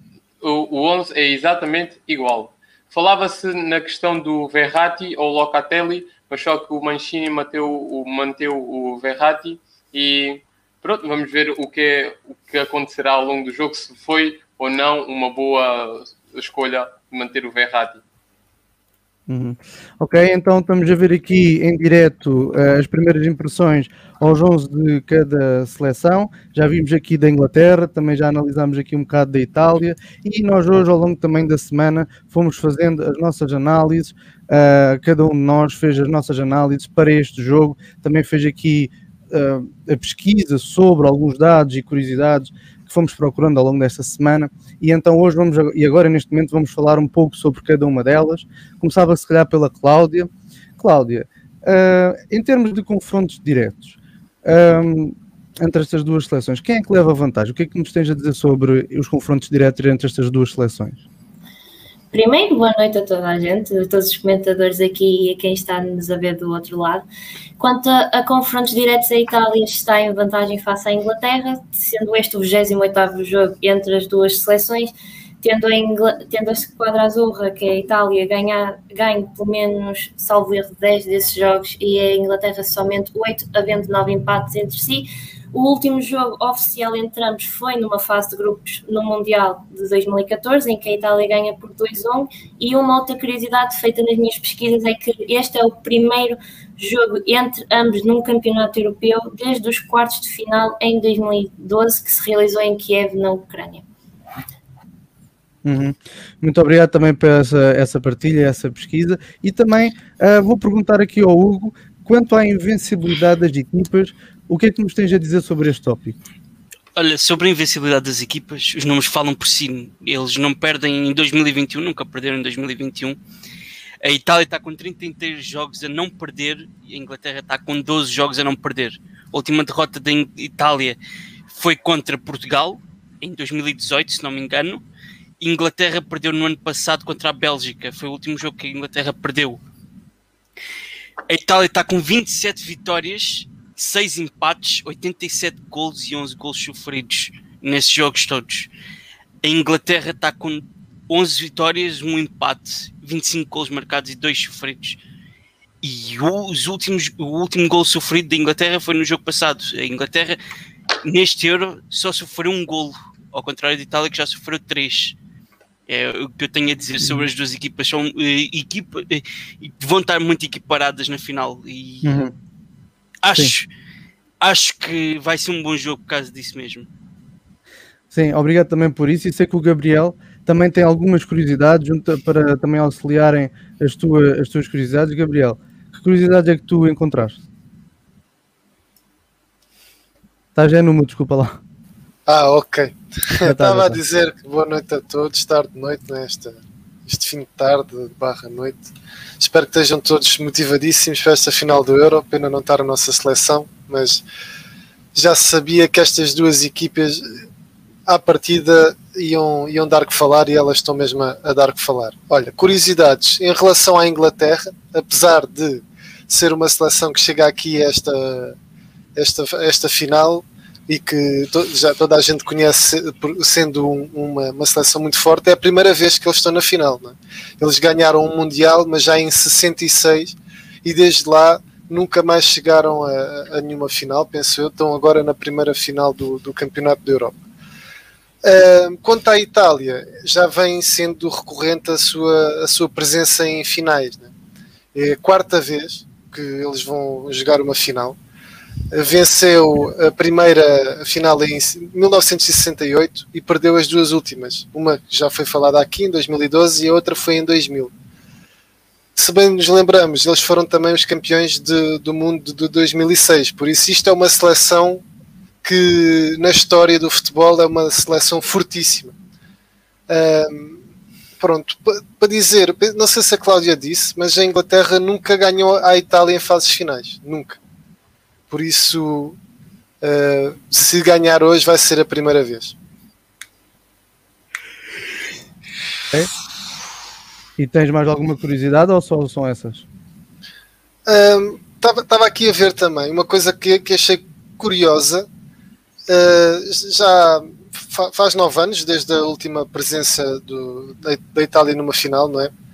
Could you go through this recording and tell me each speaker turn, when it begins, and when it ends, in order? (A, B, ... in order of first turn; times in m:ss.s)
0:00.4-0:18.0 A
0:19.3-1:01.0 B
1:02.1-1:07.0 C
1:07.6-1:43.8 C
1:45.6-1:56.2 B
1:57.0-2:03.2 D
2:04.0-2:11.0 D
2:11.5-2:14.8 D
2:15.4-2:19.6 D
2:21.3-2:28.7 D
2:29.4-2:35.0 D
2:35.8-2:40.4 D
2:41.0-2:45.2 D
2:45.9-2:52.2 D
2:47.0-2:47.3 B
2:52.0-2:52.3 B
2:53.2-2:53.7 D
2:54.4-2:56.9 D
2:58.1-3:07.4 B
3:10.6-3:11.6 B
3:12.3-3:18.9 E
3:13.4-3:14.0 B
3:19.4-3:24.2 E
3:25.2-3:27.3 E
3:28.1-3:38.6 E
3:39.2-3:57.4 E
3:58.4-4:04.3 E
4:05.0-4:08.2 E
4:08.9-4:17.9 E
4:19.2-4:25.0 E
4:25.6-4:29.1 E
4:30.1-4:30.8 E
4:31.4-4:37.6 E
4:38.5-4:39.4 E
4:40.0-4:42.8 E
4:47.6-4:49.9 B
4:51.1-4:55.3 E
4:56.1-5:02.5 E